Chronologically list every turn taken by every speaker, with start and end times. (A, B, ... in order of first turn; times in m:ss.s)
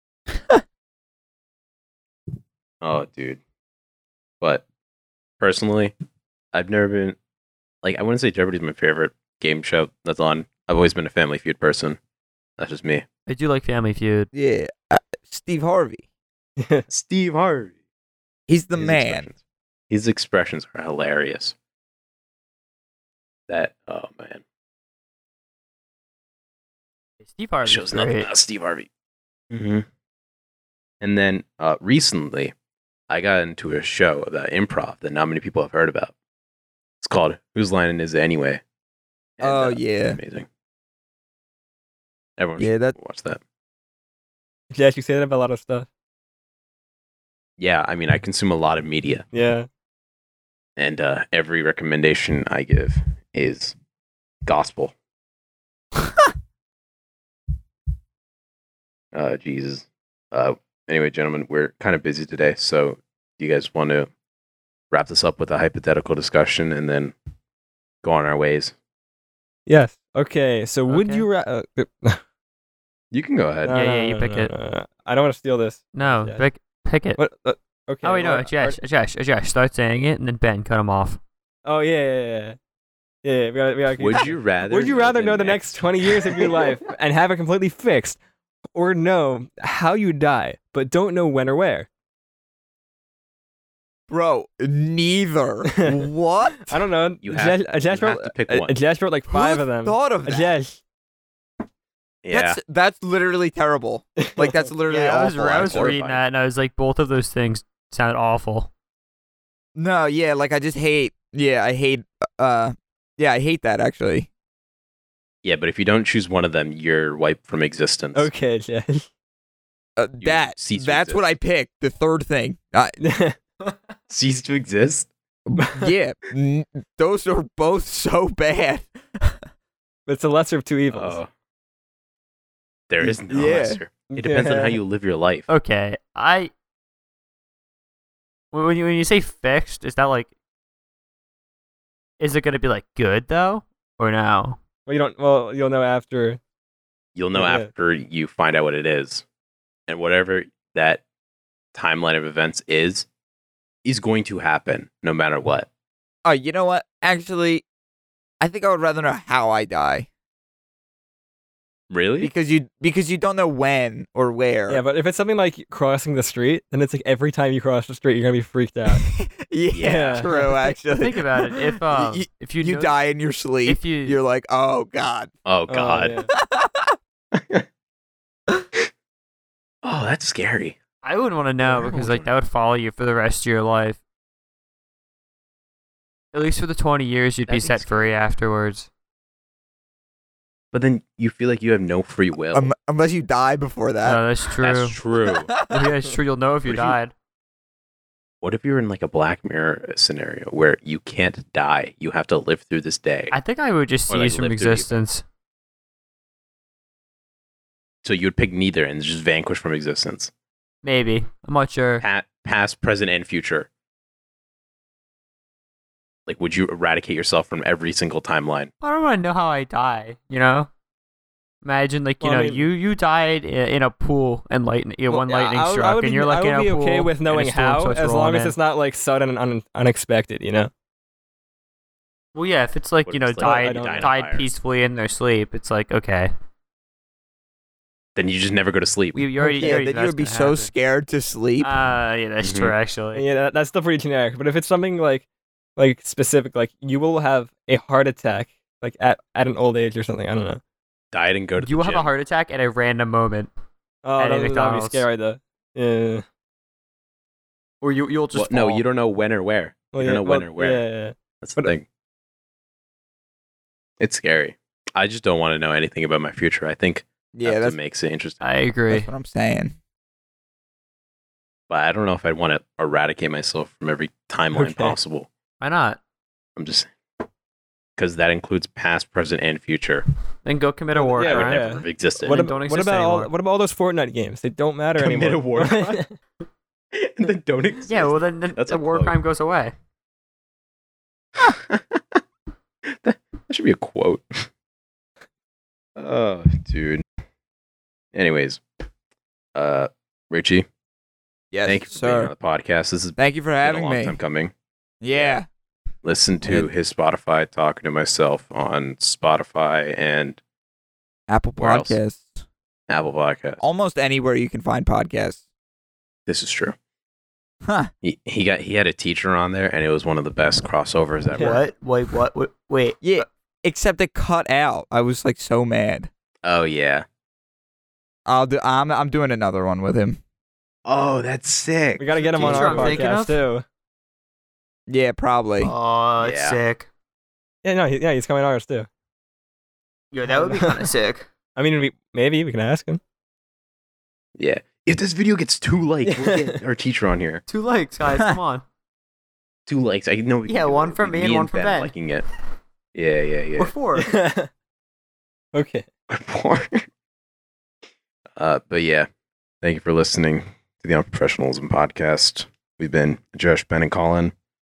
0:02.8-0:03.4 A
0:05.4-0:05.9 A
0:06.5-0:07.2 A
0:07.8-0:12.0 A
0:12.6-0:13.0 A
0:13.3-0:14.3 B
0:14.3-0:16.0 C
0:16.6-0:16.9 D
0:16.9-0:17.7 A
0:18.5-0:19.3 C
0:18.8-0:19.4 A
0:19.9-0:21.5 A
0:23.5-0:24.4 A
0:27.2-0:28.3 B
0:27.6-0:28.9 A
0:29.5-0:29.9 A
0:31.0-0:32.5 A
0:33.1-0:36.1 A
0:37.0-0:38.6 A
0:39.4-0:40.5 A
0:39.4-0:40.2 C
0:42.4-0:43.4 A
0:42.6-0:43.0 C
0:44.7-0:45.9 D
0:47.6-0:49.3 A
0:49.3-0:49.7 D
0:50.8-0:53.8 A
0:54.4-0:54.9 A
0:59.1-1:04.1 A
1:04.9-1:07.1 A
1:08.0-1:08.8 A
1:09.7-1:12.2 D
1:10.9-1:11.3 B
1:13.1-1:13.7 A
1:13.6-1:16.4 D
1:13.7-1:14.5 B
1:15.9-1:17.2 B
1:17.2-1:18.8 D
1:18.0-1:21.2 B
1:21.6-1:22.6 D
1:23.2-1:28.2 D
1:24.0-1:26.6 A
1:28.7-1:31.9 D
1:34.1-1:36.8 C
1:35.8-1:40.8 D
1:37.2-1:38.8 A
1:39.3-1:40.5 C
1:42.2-1:42.6 A
1:42.3-1:46.0 C
1:44.2-1:44.7 D
1:44.9-1:48.7 B
1:45.6-1:46.2 A
1:49.8-1:54.3 C
1:55.4-1:58.3 A
1:58.2-1:59.1 D
2:00.0-2:03.0 C
2:00.2-2:01.2 A
2:03.0-2:03.4 D
2:04.1-2:05.1 A
2:05.5-2:09.4 C
2:05.6-2:05.9 D
2:10.1-2:11.2 D
2:10.9-2:11.3 A
2:12.9-2:15.5 A
2:13.0-2:13.8 C
2:14.1-2:14.8 D
2:15.5-2:16.5 B
2:18.5-2:20.3 B
2:22.2-2:24.6 B
2:24.9-2:26.4 D
2:27.2-2:29.2 A
2:27.4-2:27.7 D
2:29.9-2:31.0 A
2:31.7-2:33.1 A
2:33.8-2:35.7 A
2:36.2-2:37.6 C
2:38.4-2:40.1 C
2:41.9-2:42.3 A
2:42.2-2:44.8 C
2:44.7-2:49.1 D
2:48.9-2:55.3 C
2:49.7-2:50.2 A
2:49.8-2:50.2 D
2:50.2-2:53.0 B
2:53.6-2:54.2 B
2:55.5-2:56.2 A
2:55.7-2:56.3 D
2:56.4-2:57.0 C
2:57.3-2:57.7 A
2:59.8-3:00.8 A
3:01.0-3:04.0 B
3:01.7-3:02.0 D
3:01.8-3:02.3 A
3:06.3-3:08.9 B
3:07.5-3:08.1 A
3:10.7-3:12.7 A
3:12.5-3:14.2 C
3:14.0-3:15.0 B
3:14.6-3:15.5 A
3:15.3-3:15.9 C
3:15.7-3:17.1 B
3:16.7-3:17.0 A
3:18.4-3:23.4 A
3:23.3-3:25.2 B
3:24.1-3:24.9 A
3:28.0-3:30.3 A
3:30.8-3:32.0 B
3:32.0-3:33.7 A
3:36.3-3:38.7 A
3:38.8-3:40.7 B
3:41.6-3:48.6 B
3:42.2-3:42.7 D
3:45.1-3:50.7 D
3:52.4-3:56.3 B
3:53.1-3:54.5 A
3:53.4-3:54.1 D
3:58.2-3:59.2 A
3:59.2-4:00.7 B
3:59.4-3:59.8 D
3:59.6-4:01.7 C
4:01.6-4:03.2 B
4:02.4-4:02.8 A
4:03.2-4:05.2 D
4:05.8-4:10.6 D
4:11.1-4:12.1 A
4:11.6-4:13.5 B
4:14.0-4:16.2 D
4:14.2-4:15.0 B
4:17.8-4:18.8 B
4:18.3-4:20.8 A
4:19.9-4:21.7 D
4:21.4-4:21.9 A
4:24.0-4:28.4 A
4:27.3-4:27.8 C
4:28.4-4:29.1 B
4:28.9-4:29.8 C
4:31.7-4:35.3 A
4:34.5-4:35.0 D
4:35.6-4:36.0 B
4:36.6-4:36.9 A
4:38.0-4:40.0 A
4:40.4-4:43.3 B
4:41.0-4:46.2 D
4:41.2-4:42.4 A
4:45.0-4:46.0 A
4:46.9-4:49.2 A
4:47.9-4:49.7 B
4:51.4-4:52.2 A
4:52.8-4:54.5 A
4:56.0-4:57.0 A
4:58.1-4:58.6 A
4:59.6-5:00.7 A
5:01.5-5:02.3 C
5:01.6-5:04.5 A
5:03.2-5:04.2 C
5:05.0-5:05.5 C
5:05.1-5:05.4 A
5:06.0-5:10.4 A
5:06.4-5:06.7 C
5:11.3-5:12.4 C
5:11.6-5:12.0 A
5:12.9-5:13.6 A
5:13.6-5:15.4 C
5:16.3-5:16.8 A
5:17.6-5:17.9 C
5:18.0-5:21.6 A
5:21.3-5:21.6 D
5:21.4-5:23.3 B
5:23.0-5:26.1 C
5:26.4-5:27.1 A
5:28.3-5:30.2 C
5:30.8-5:33.1 A
5:32.0-5:33.6 D
5:32.4-5:33.4 B
5:34.9-5:35.7 C
5:35.6-5:36.9 B
5:36.2-5:36.6 A
5:37.6-5:38.9 D
5:40.1-5:41.3 B
5:40.3-5:40.9 D
5:41.6-5:43.0 D
5:44.4-5:47.4 A
5:46.0-5:46.6 D
5:47.5-5:48.6 B
5:49.7-5:52.2 A
5:50.5-5:51.9 B
5:52.9-5:53.7 A
5:53.6-5:54.1 B
5:54.0-5:54.5 D
5:55.5-5:55.9 D
5:56.1-5:56.9 A
5:58.4-5:59.1 A
5:59.6-6:04.3 A